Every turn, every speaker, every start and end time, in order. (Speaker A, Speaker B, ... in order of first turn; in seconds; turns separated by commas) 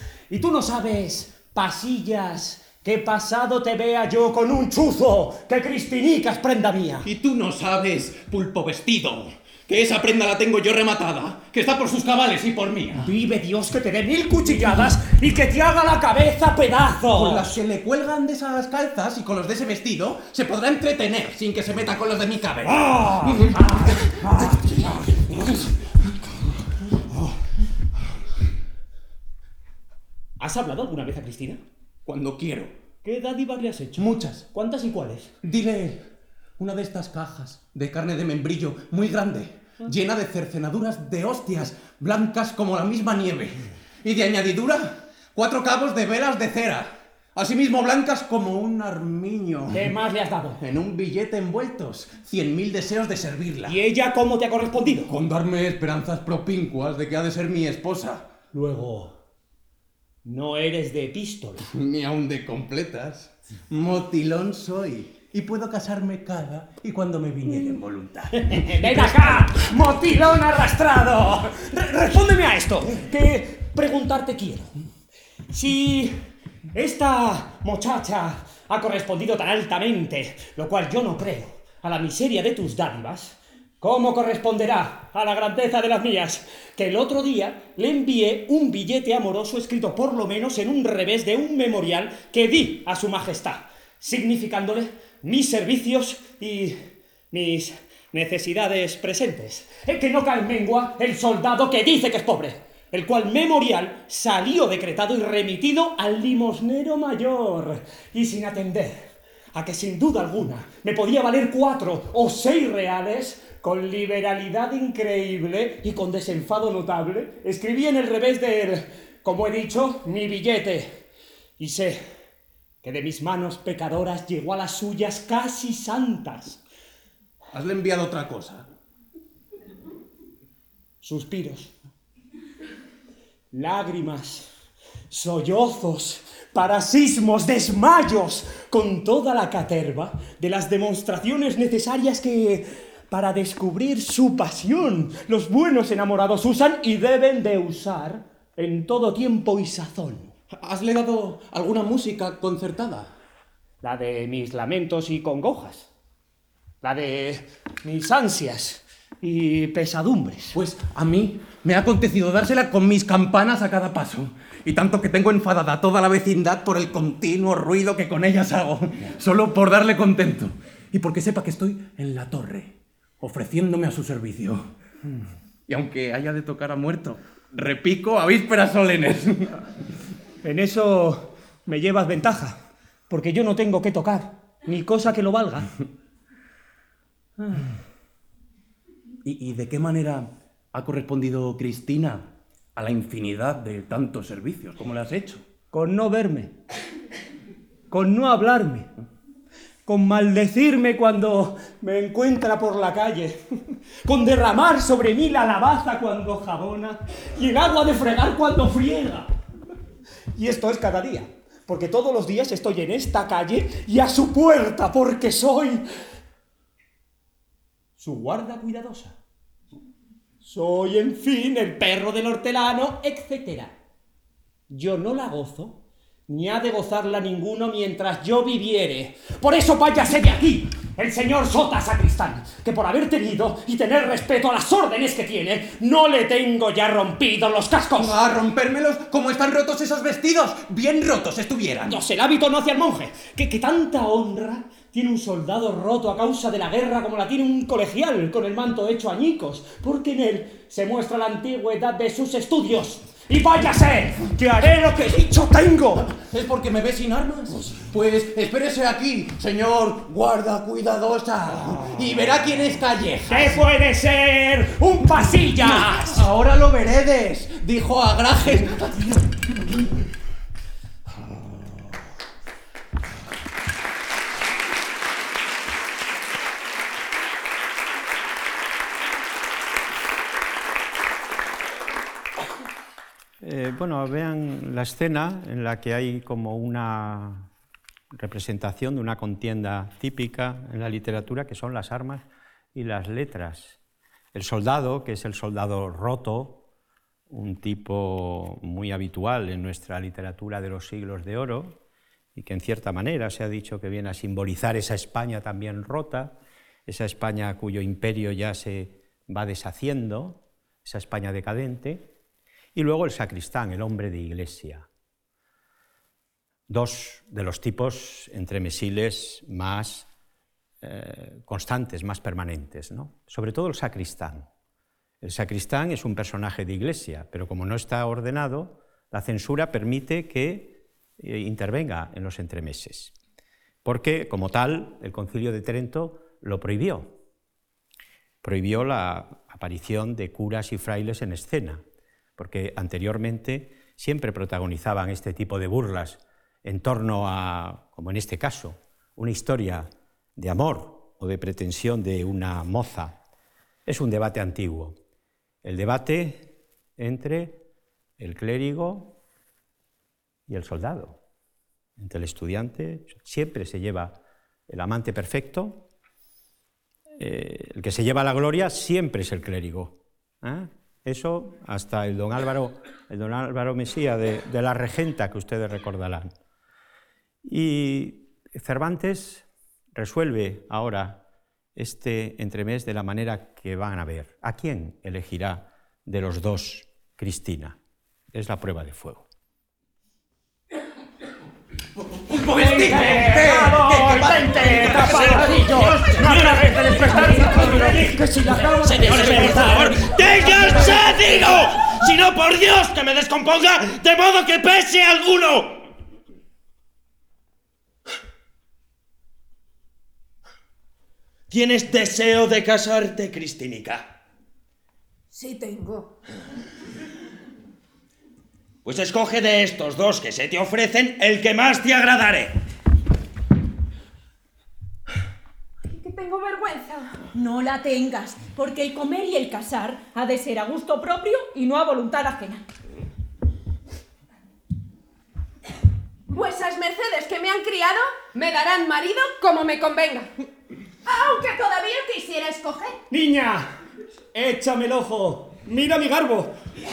Speaker A: 0.3-7.1, Speaker B: 7.0-13.1, Speaker A: 13.0-17.6, Speaker B: 17.1-25.5, Speaker A: 22.8-24.8, Speaker A: 30.4-31.6, Speaker B: 32.0-32.8, Speaker A: 33.0-35.3, Speaker B: 35.4-36.1, Speaker B: 36.6-49.9, Speaker A: 49.7-50.6, Speaker B: 50.6-53.8, Speaker A: 53.6-55.1, Speaker B: 55.1-58.3, Speaker A: 58.5-59.1, Speaker A: 60.2-61.7, Speaker B: 61.7-69.6, Speaker A: 68.4-74.7, Speaker A: 75.5-76.2, Speaker A: 76.7-96.8, Speaker A: 97.3-121.0, Speaker A: 121.6-122.0, Speaker A: 122.8-126.6, Speaker B: 127.5-128.7, Speaker A: 131.0-131.7, Speaker A: 133.5-134.5, Speaker A: 135.1-150.3, Speaker B: 150.5-153.1, Speaker A: 153.8-155.9, Speaker A: 156.8-160.6, Speaker B: 160.5-174.7, Speaker B: 175.7-179.6, Speaker A: 180.4-182.6, Speaker A: 183.1-185.7, Speaker B: 189.2-195.4, Speaker A: 195.7-196.5, Speaker A: 197.9-198.9, Speaker A: 199.8-203.4, Speaker A: 204.0-209.3, Speaker A: 210.3-215.8, Speaker A: 218.0-219.2, Speaker A: 220.4-223.8, Speaker A: 224.7-238.2, Speaker B: 238.0-242.0, Speaker A: 241.8-256.1, Speaker B: 256.1-263.6, Speaker A: 263.3-266.2, Speaker B: 265.7-269.6, Speaker C: 283.4-287.5, Speaker C: 288.1-292.2, Speaker C: 292.7-293.8, Speaker C: 294.3-296.6, Speaker C: 297.3-301.8, Speaker C: 302.3-306.3, Speaker C: 306.9-312.1, Speaker C: 312.7-314.8, Speaker C: 316.7-320.1, Speaker C: 320.8-324.4, Speaker C: 325.2-333.1, Speaker C: 333.8-337.1, Speaker C: 338.4-341.8, Speaker C: 342.4-353.1, Speaker C: 353.9-355.0, Speaker C: 355.6-357.6, Speaker C: 358.2-359.2, Speaker C: 360.5-361.2, Speaker C: 362.0-364.2, Speaker C: 364.7-365.8, Speaker C: 367.2-376.3, Speaker C: 377.4-381.2, Speaker C: 381.8-387.8, Speaker C: 388.3-389.3, Speaker B: 392.1-395.8, Speaker A: 392.4-401.0, Speaker D: 395.2-397.6, Speaker D: 398.9-405.8, Speaker D: 411.5-414.1, Speaker E: 415.3-416.1, Speaker D: 418.8-422.5, Speaker E: 425.9-427.2, Speaker F: 427.3-432.6, Speaker E: 436.3-440.4, Speaker E: 441.1-443.0, Speaker A: 443.1-443.7, Speaker A: 444.3-446.5